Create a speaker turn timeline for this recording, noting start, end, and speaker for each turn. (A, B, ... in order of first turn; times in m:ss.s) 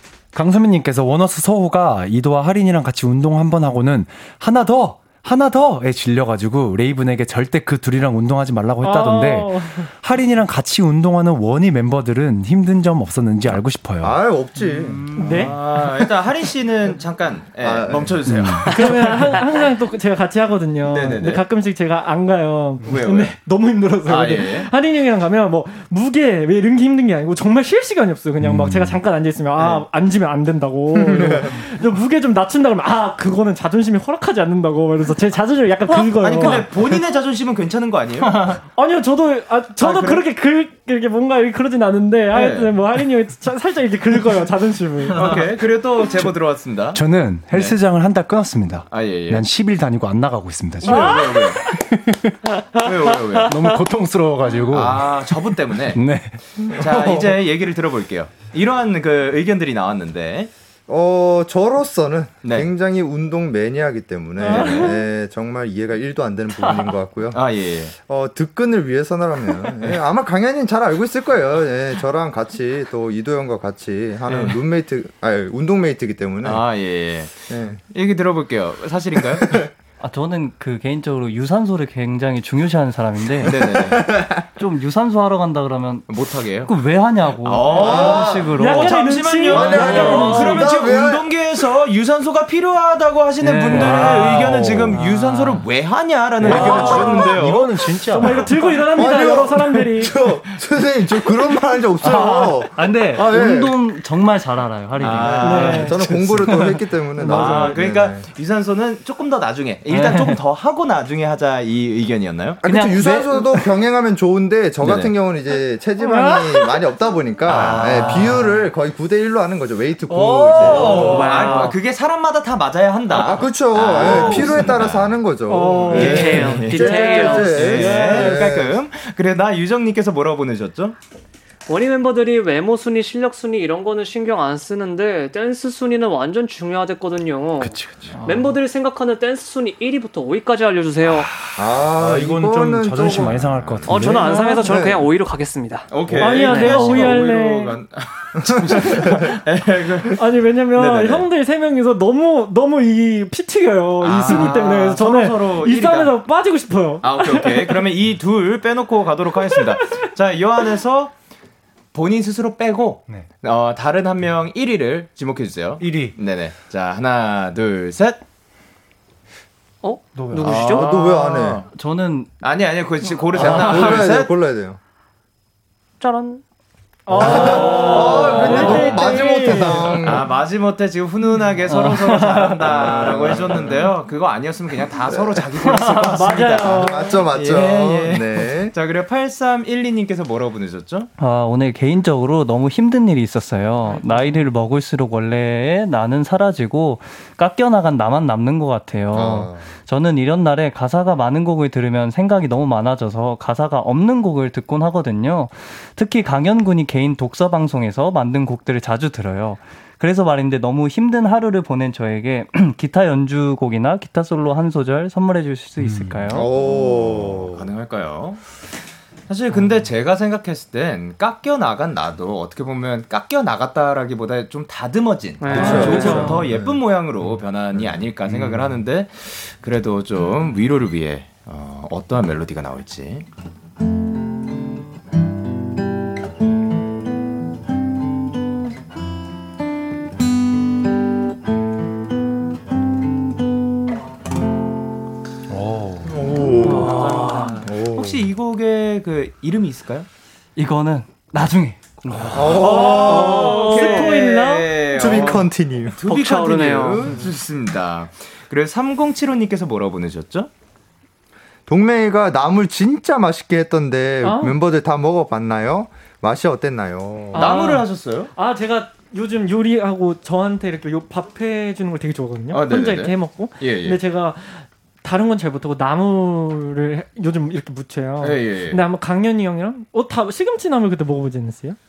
0:00.3-0:14.2 A
0:08.8-0:09.9 B
0:14.0-0:15.1 C
0:14.7-0:15.5 D
0:15.2-0:15.6 B
0:15.2-0:19.1 E
0:17.6-0:18.5 C
0:18.3-0:18.7 A
0:18.7-0:37.0 B
0:20.8-0:21.4 E
0:22.8-0:23.4 E
0:24.0-0:24.7 E
0:28.4-0:29.0 A
0:29.6-0:29.8 E
0:31.0-0:31.5 C
0:35.9-0:38.6 E
0:38.7-0:45.4 B
0:39.8-0:40.2 E
0:42.3-0:42.8 E
0:45.1-0:47.8 E
0:46.9-0:52.4 A
0:48.9-0:49.5 E
0:50.8-0:51.6 E
0:50.8-0:51.7 B
0:52.8-0:53.7 E
0:53.4-0:56.4 A
0:54.7-0:56.0 E
0:56.7-1:00.5 E
0:56.7-0:57.3 C
1:00.9-1:07.4 C
1:02.4-1:02.7 E
1:04.4-1:04.9 B
1:04.5-1:04.9 E
1:07.3-1:08.0 E
1:08.1-1:16.6 C
1:14.3-1:14.6 E
1:16.4-1:19.6 E
1:17.5-1:17.8 C
1:19.4-1:19.6 C
1:20.0-1:23.8 D
1:23.4-1:24.0 E
1:23.4-1:24.4 C
1:24.6-1:26.1 D
1:26.1-1:26.7 E
1:26.6-1:29.0 D
1:27.4-1:37.8 E
1:27.7-1:28.6 C
1:27.8-1:30.7 B
1:29.5-1:31.3 C
1:29.6-1:30.5 D
1:33.4-1:35.6 D
1:33.7-1:35.4 A
1:36.4-1:38.7 A
1:36.5-1:37.3 B
1:38.1-1:40.2 B
1:38.9-1:43.8 C
1:42.0-1:47.8 D
1:45.0-1:52.6 E
1:45.4-1:46.0 B
1:45.5-1:48.2 C
1:49.9-1:50.4 D
1:52.6-1:53.7 D
1:52.6-2:01.5 C
1:54.8-1:55.1 E
1:56.0-1:56.6 B
1:57.5-1:58.5 E
1:57.8-1:58.3 D
2:00.6-2:05.2 E
2:00.6-2:01.8 F
2:00.6-2:01.4 D
2:03.1-2:08.8 C
2:05.5-2:07.2 B
2:05.9-2:11.0 E
2:05.9-2:07.6 F
2:07.9-2:08.2 B
2:08.1-2:08.4 A
2:11.7-2:21.3 F
2:17.6-2:18.2 A
2:21.1-2:21.6 E
2:21.6-2:24.1 C
2:22.0-2:24.3 A
2:23.2-2:23.9 E
2:23.9-2:27.2 F
2:24.0-2:24.7 B
2:24.6-2:25.1 C
2:25.9-2:30.2 E
2:26.2-2:27.8 B
2:28.4-2:29.1 C
2:30.2-2:37.8 B
2:30.7-2:31.3 E
2:34.0-2:36.1 E
2:37.0-2:41.1 E
2:39.5-2:39.8 B
2:41.9-2:48.2 E
2:45.8-2:46.2 A
2:49.8-2:50.9 F
2:50.2-2:50.7 A
2:50.4-2:51.6 C
2:50.9-2:51.6 E
2:51.0-2:52.3 D
2:52.4-2:54.3 E
2:53.3-2:54.8 C
2:56.0-2:56.4 F
2:57.1-3:00.1 B
2:57.1-3:00.3 C
2:57.3-2:59.1 E
2:57.5-2:58.3 F
3:00.0-3:11.1 E
3:01.7-3:02.6 D
3:02.1-3:02.5 B
3:02.6-3:03.8 C
3:05.6-3:07.2 B
3:06.7-3:08.7 C
3:11.2-3:36.5 D
3:14.0-3:14.3 B
3:19.1-3:19.7 C
3:35.8-3:36.4 A
3:36.3-3:37.7 C
3:37.5-3:38.4 E
3:39.3-3:53.3 E
3:45.4-3:46.4 F
3:45.5-3:46.8 C
3:45.6-3:46.4 B
3:48.3-3:48.8 A
4:05.5-4:06.4 A
4:06.0-4:07.0 C
4:06.6-4:07.5 F
4:07.0-4:07.6 D
4:07.2-4:10.1 E
4:07.6-4:08.2 C
4:10.6-4:12.8 D
4:12.3-4:13.9 C
4:12.4-4:20.5 E
4:12.8-4:15.2 B
4:13.5-4:14.0 F
4:15.0-4:16.0 C
4:16.1-4:17.0 F
4:21.7-4:27.7 C
4:24.2-4:24.6 B
4:27.3-4:41.8 B
4:27.3-4:28.3 E
4:32.5-4:34.0 E
4:38.2-4:38.8 E